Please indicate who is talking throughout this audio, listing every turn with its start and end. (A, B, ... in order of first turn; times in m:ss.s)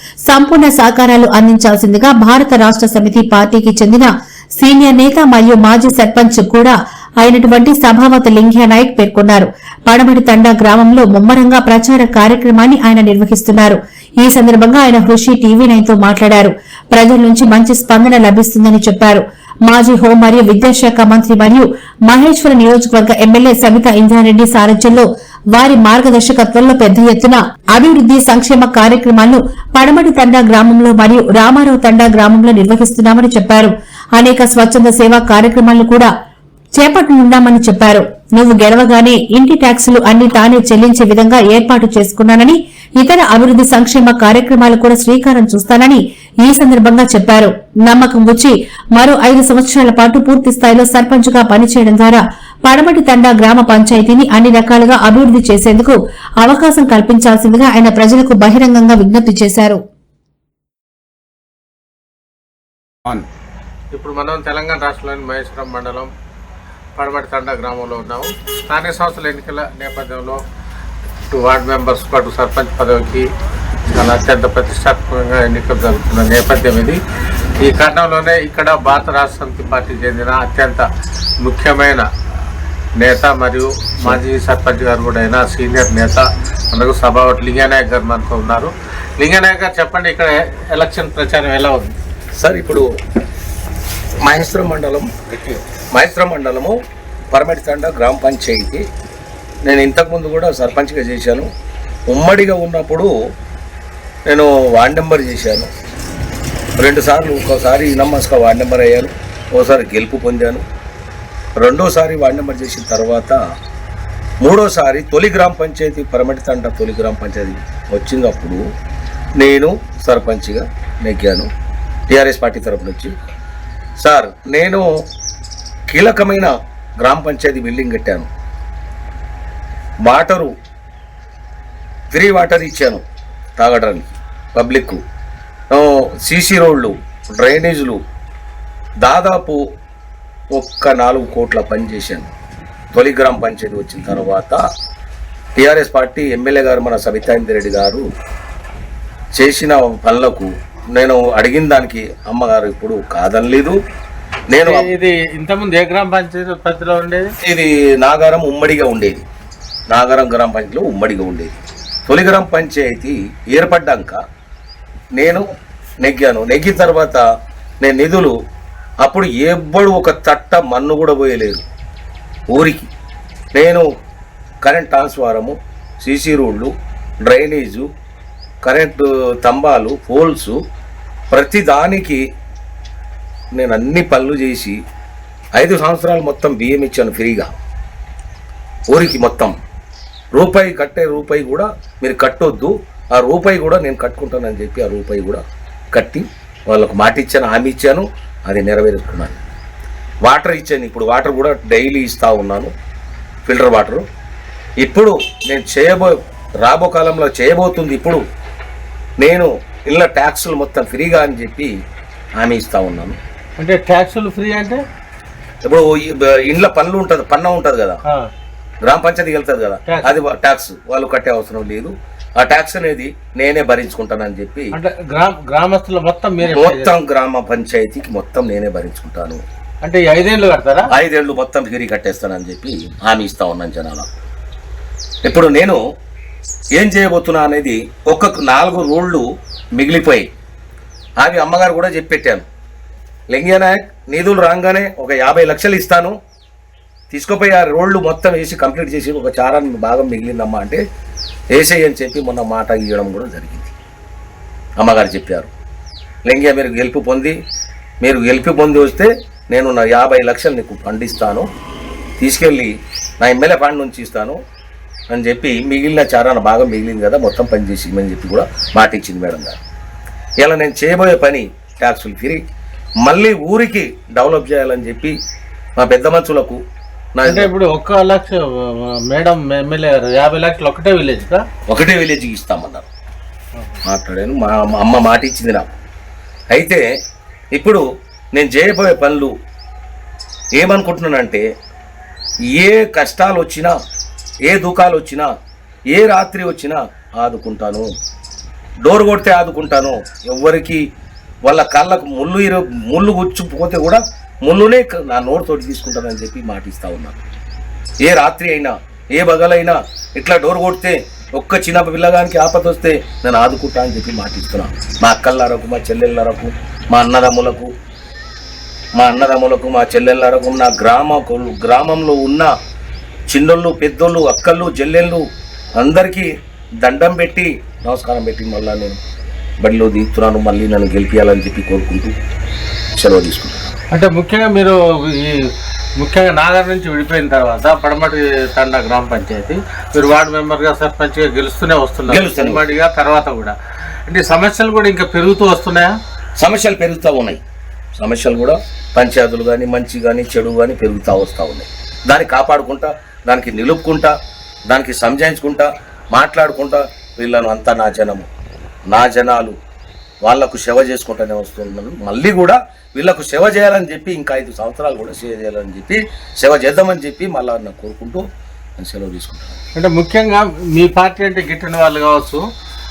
0:00.3-0:36.1 A
0:36.8-0:59.8 A
1:03.9-1:06.1 B
1:07.0-1:10.4 B
1:11.3-1:13.3 B
1:13.9-1:17.0 B
1:17.6-1:20.9 B
1:21.4-1:22.1 B
1:23.0-1:32.0 B
1:32.4-1:32.9 C
1:34.2-1:35.1 C
1:35.9-1:36.8 C
1:37.3-1:38.8 C
1:39.6-1:41.5 C
1:42.1-1:43.1 C
1:44.3-1:45.7 C
1:46.8-1:50.6 C
1:51.6-1:53.4 C
1:54.4-1:58.6 C
1:59.4-2:01.5 C
2:02.1-2:03.1 C
2:04.0-2:04.8 C
2:05.9-2:08.3 C
2:10.0-2:10.5 C
2:12.1-2:13.0 C
2:13.6-2:15.0 C
2:15.7-2:18.0 C
2:19.0-2:19.6 C
2:20.5-2:22.3 C
2:22.9-2:24.6 C
2:25.6-2:28.0 C
2:29.3-2:33.8 C
2:34.5-2:34.9 C
2:34.6-2:37.3 B
2:37.4-2:39.2 C
2:39.9-2:44.2 C
2:45.2-2:45.4 C
2:46.0-2:47.2 C
2:47.8-2:48.3 C
2:49.0-2:51.6 C
2:52.5-2:52.9 C
2:53.5-2:53.8 C
2:54.6-2:56.7 C
2:57.2-2:57.9 C
2:58.6-3:00.6 C
3:01.3-3:02.2 C
3:03.5-3:04.8 C
3:05.6-3:07.5 C
3:08.9-3:09.5 C
3:10.3-3:15.4 C
3:15.9-3:19.4 C
3:20.2-3:22.7 C
3:23.4-3:24.0 C
3:24.8-3:28.2 C
3:29.2-3:31.7 C
3:32.4-3:33.2 C
3:33.6-3:34.8 B
3:35.6-3:38.0 C
3:38.8-3:44.7 C
3:39.8-3:40.2 B
3:44.7-3:46.9 B
3:46.4-3:49.4 C
3:49.8-3:50.9 B
3:50.9-3:54.1 C
3:55.2-3:55.8 C
3:56.7-3:59.2 C
3:59.8-4:00.2 C
4:01.2-4:02.4 C
4:03.3-4:06.2 C
4:07.1-4:10.8 C
4:11.5-4:13.7 C
4:14.8-4:15.5 C
4:16.3-4:17.4 C
4:18.0-4:21.5 C
4:22.2-4:24.4 C
4:25.1-4:29.6 C
4:30.4-4:32.4 C
4:33.0-4:35.2 C
4:35.8-4:36.6 C
4:37.1-4:37.5 C
4:37.3-4:41.4 B
4:41.7-4:42.9 C
4:43.8-4:45.7 C
4:46.5-4:46.8 C
4:47.5-4:47.8 C
4:48.3-4:49.3 C
4:50.6-4:51.4 C
4:52.5-4:53.7 C
4:54.5-4:55.3 C
4:55.9-4:57.9 C
4:58.8-5:00.8 C
5:01.4-5:07.2 C
5:08.0-5:17.7 C
5:19.0-5:22.5 C
5:23.3-5:25.2 C
5:25.8-5:26.3 C
5:26.8-5:29.0 C
5:29.6-5:32.1 C
5:33.0-5:33.7 C
5:33.9-5:43.6 B
5:42.1-5:42.6 C
5:44.1-5:46.0 B
5:46.4-5:47.4 C
5:48.0-5:54.1 C
5:54.7-5:58.3 C
5:58.9-5:59.6 C
6:00.2-6:08.2 C
6:08.8-6:09.6 C
6:09.8-6:12.4 B